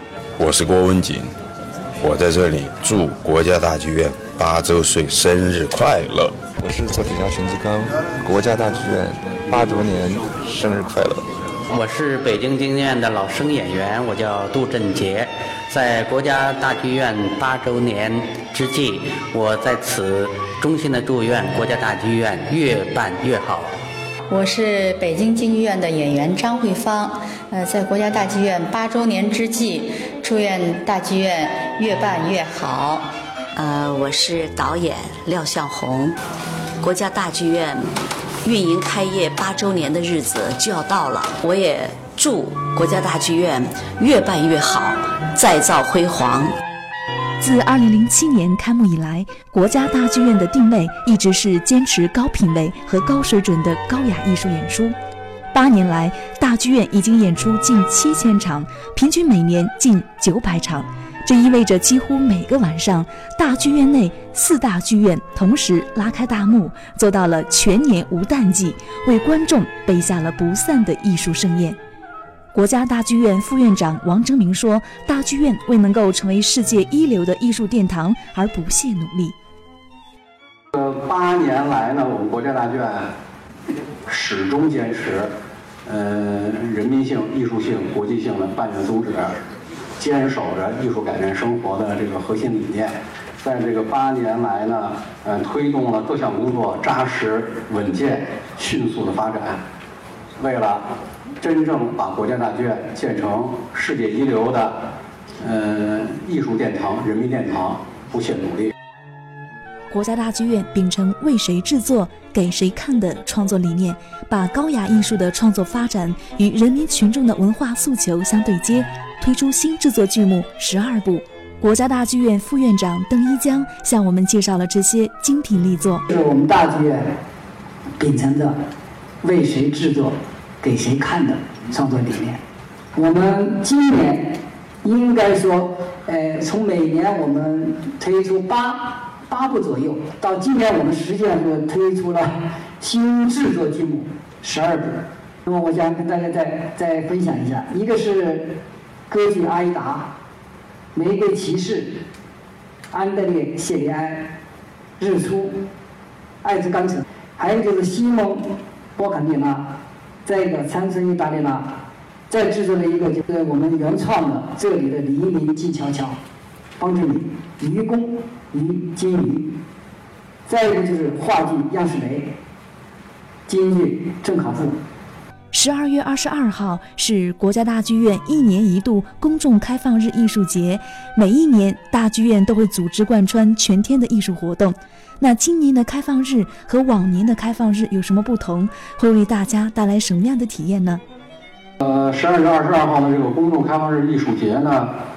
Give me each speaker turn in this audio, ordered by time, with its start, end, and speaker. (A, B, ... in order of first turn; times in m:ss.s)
0:00.4-0:01.3 A
0:02.0-0:06.4 A
0:06.6-0:11.2 B
0:11.7-0:23.7 C
0:24.3-0:33.1 D
0:33.6-0:36.2 E
0:36.8-0:37.9 E
0:38.4-0:46.5 E
0:47.4-0:54.9 F
0:55.5-1:11.8 F
1:12.5-1:19.4 F
1:20.7-1:23.1 G
1:24.1-1:25.3 G
1:25.9-1:29.4 G
1:30.0-1:39.6 G
1:40.4-1:40.9 G
1:41.4-1:44.8 G
1:45.4-1:48.7 G
1:49.9-2:06.0 F
2:06.1-2:07.0 H
2:08.0-2:08.6 H
2:09.2-2:12.4 H
2:12.9-2:28.6 H
2:29.1-2:30.1 H
2:30.9-2:32.0 H
2:32.9-2:34.3 H
2:35.0-2:35.6 H
2:36.4-2:39.7 H
2:40.2-2:41.7 H
2:42.3-2:46.2 H
2:46.8-2:49.6 H
2:50.5-2:52.3 H
2:53.5-2:54.8 H
2:55.5-3:11.0 F
3:11.8-3:14.9 G